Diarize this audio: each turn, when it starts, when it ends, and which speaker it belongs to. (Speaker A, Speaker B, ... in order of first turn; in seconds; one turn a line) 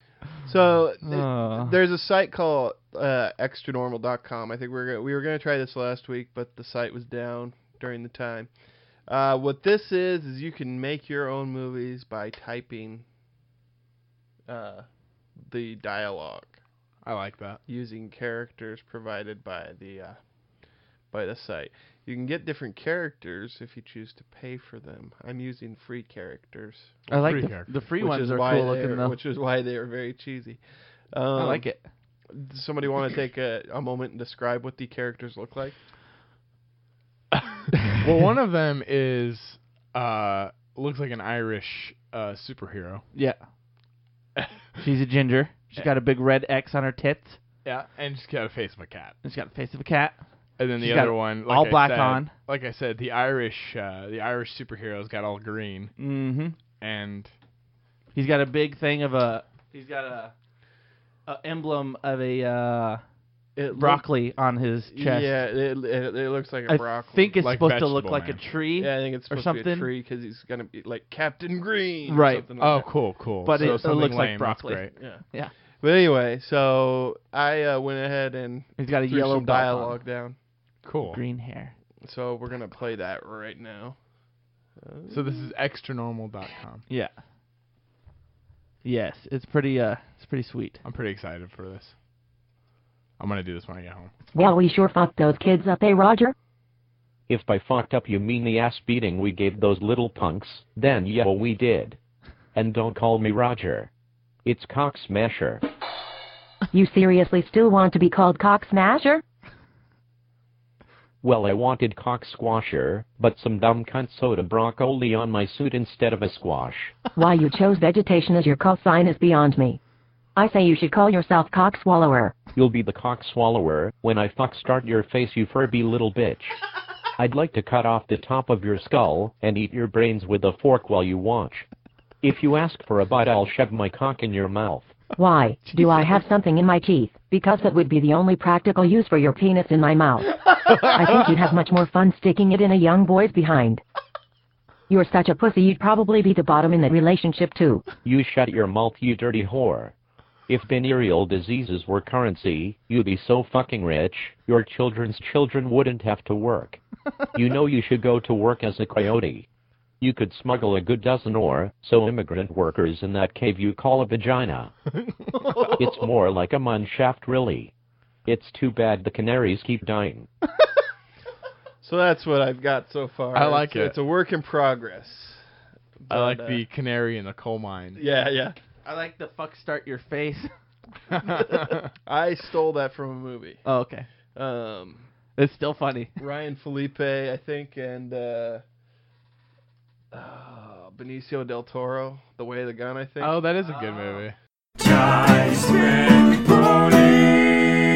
Speaker A: 0.4-13.1
Speaker B: 1.0-1.8
Speaker A: 14.5-16.6
Speaker C: 17.0-17.6
Speaker A: 17.6-27.0
Speaker B: 27.1-29.2
Speaker C: 27.1-27.8
Speaker A: 28.0-31.7
Speaker B: 31.3-31.9
Speaker A: 32.2-35.8
Speaker C: 38.0-43.0
Speaker B: 43.1-43.5
Speaker B: 44.8-47.4
Speaker C: 47.6-49.1
Speaker B: 49.2-52.3
Speaker C: 50.6-56.0
Speaker B: 56.0-56.6
Speaker C: 56.7-57.3
Speaker B: 58.1-60.4
Speaker B: 61.2-63.0
Speaker A: 63.5-64.1
Speaker B: 63.7-65.5
Speaker A: 64.9-67.4
Speaker B: 66.7-69.9
Speaker C: 67.4-68.5
Speaker A: 68.8-73.8
Speaker B: 72.0-72.5
Speaker C: 72.5-75.2
Speaker B: 73.4-75.6
Speaker A: 74.9-80.4
Speaker B: 78.8-80.0
Speaker C: 80.8-81.2
Speaker B: 81.0-81.8
Speaker A: 82.0-84.2
Speaker A: 84.7-85.5
Speaker C: 85.1-86.8
Speaker B: 86.9-87.2
Speaker B: 88.8-90.8
Speaker C: 90.8-91.9
Speaker C: 93.2-94.1
Speaker D: 94.3-96.3
Speaker E: 97.3-102.0
Speaker E: 102.5-103.9
Speaker E: 104.4-105.6
Speaker D: 106.7-109.2
Speaker E: 111.2-117.0
Speaker D: 117.2-119.8
Speaker D: 120.3-122.3
Speaker E: 122.5-126.6
Speaker E: 127.2-131.7
Speaker E: 132.2-134.9
Speaker D: 135.2-143.8
Speaker B: 135.8-136.0
Speaker D: 144.9-147.8
Speaker E: 148.0-149.9
Speaker E: 150.5-156.8
Speaker E: 157.3-159.5
Speaker E: 160.0-164.7
Speaker E: 165.6-167.7
Speaker E: 168.2-170.3
Speaker A: 171.8-176.6
Speaker C: 173.3-174.0
Speaker C: 176.1-178.1
Speaker A: 177.9-178.6
Speaker B: 178.8-180.5
Speaker C: 181.4-181.7
Speaker A: 182.0-183.6
Speaker B: 183.6-184.1
Speaker A: 184.2-185.1
Speaker B: 185.3-186.1
Speaker A: 186.2-188.6
Speaker A: 190.1-193.4
Speaker C: 193.2-194.3
Speaker F: 194.8-197.5